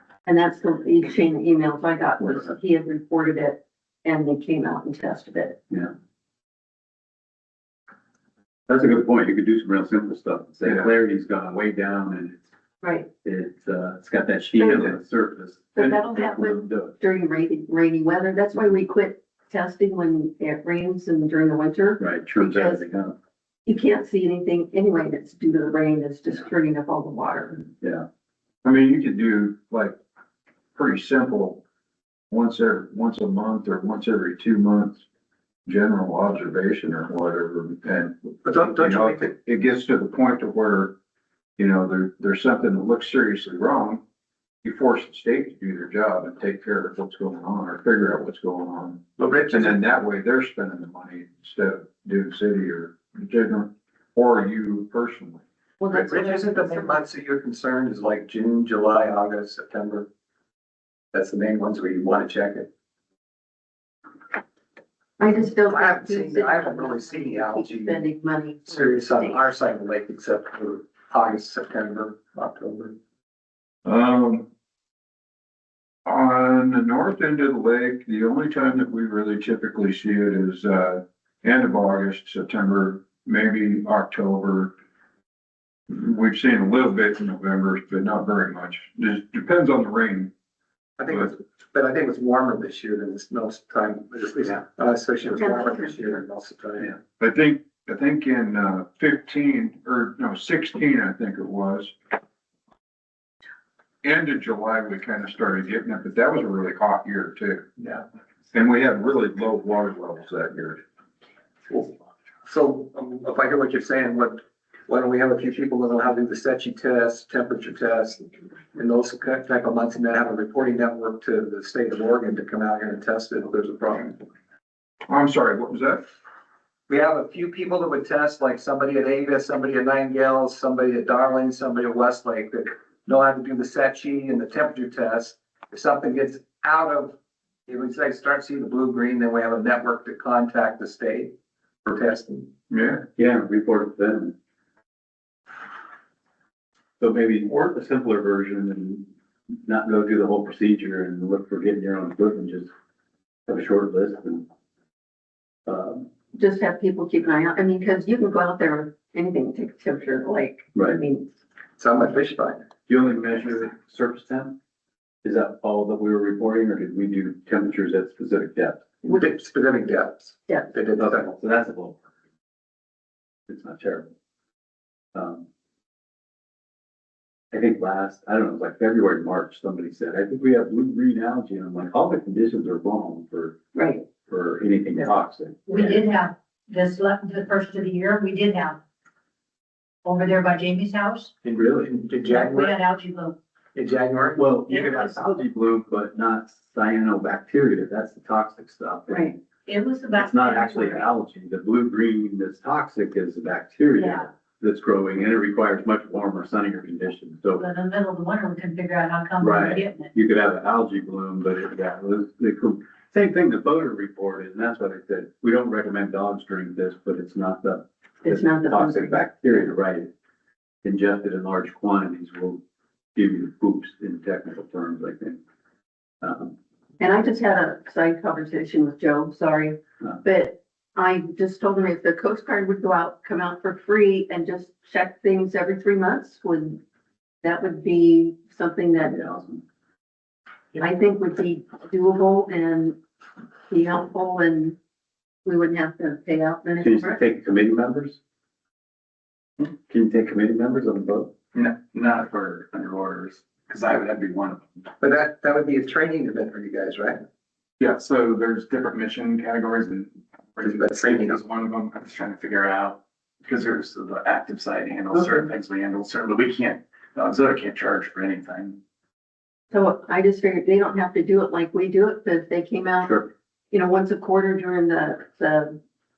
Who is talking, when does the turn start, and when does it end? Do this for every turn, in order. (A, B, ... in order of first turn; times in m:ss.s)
0:00.2-0:05.6 A
0:08.7-0:12.4 B
0:12.8-0:13.1 A
0:13.2-0:17.0 B
0:14.5-0:15.0 A
0:15.7-0:22.8 A
0:22.0-0:23.2 B
0:23.6-0:27.7 A
0:27.8-0:28.0 B
0:28.6-0:30.0 C
0:30.8-0:31.6 C
0:32.3-0:35.0 C
0:35.7-0:41.0 C
0:38.4-0:39.3 D
0:41.6-0:44.0 C
0:44.6-0:56.0 C
0:49.2-0:49.8 D
0:55.8-0:57.0 A
0:55.9-1:00.1 D
1:01.1-1:02.7 D
1:05.2-1:09.4 A
1:05.4-1:08.0 D
1:08.7-1:13.0 D
1:13.8-1:14.5 C
1:16.1-1:24.7 C
1:25.9-1:30.3 C
1:31.0-1:37.0 D
1:35.4-1:35.9 A
1:37.2-1:42.0 C
1:44.0-1:50.8 C
1:52.4-2:04.2 D
2:05.1-2:06.0 C
2:06.9-2:17.2 D
2:17.7-2:21.3 D
2:21.8-2:22.5 D
2:22.7-2:23.0 C
2:23.1-2:24.3 B
2:27.0-2:32.7 B
2:33.5-2:34.4 B
2:35.7-2:36.1 B
2:36.3-2:41.3 A
2:40.8-2:41.0 B
2:41.8-2:42.7 D
2:42.9-2:44.5 B
2:45.2-2:48.9 B
2:49.0-2:51.2 D
2:50.5-2:50.7 A
2:51.0-2:52.0 B
2:53.5-2:54.1 B
2:55.2-2:55.4 B
2:57.5-3:03.6 B
3:03.8-3:04.0 A
3:04.2-3:06.0 B
3:05.7-3:08.8 E
3:10.0-3:11.3 E
3:11.4-3:12.8 D
3:11.6-3:11.9 B
3:12.3-3:13.3 E
3:13.8-3:14.4 D
3:14.4-3:19.3 B
3:14.7-3:15.2 E
3:19.7-3:21.1 E
3:20.2-3:27.6 B
3:23.9-3:24.3 E
3:27.6-3:30.1 E
3:29.4-3:40.1 B
3:38.2-3:39.2 A
3:40.8-3:42.6 B
3:43.2-3:45.4 B
3:46.2-3:46.5 B
3:47.0-3:56.8 A
3:57.4-3:59.2 A
3:59.1-3:59.6 B
4:00.8-4:03.0 A
4:03.7-4:04.8 A
4:05.4-4:07.2 A
4:06.8-4:08.2 B
4:09.8-4:11.3 B
4:11.5-4:14.9 F
4:15.0-4:17.2 D
4:17.8-4:28.8 F
4:20.6-4:21.4 D
4:25.1-4:25.4 B
4:29.7-4:33.2 A
4:33.0-4:33.3 B
4:33.7-4:35.8 A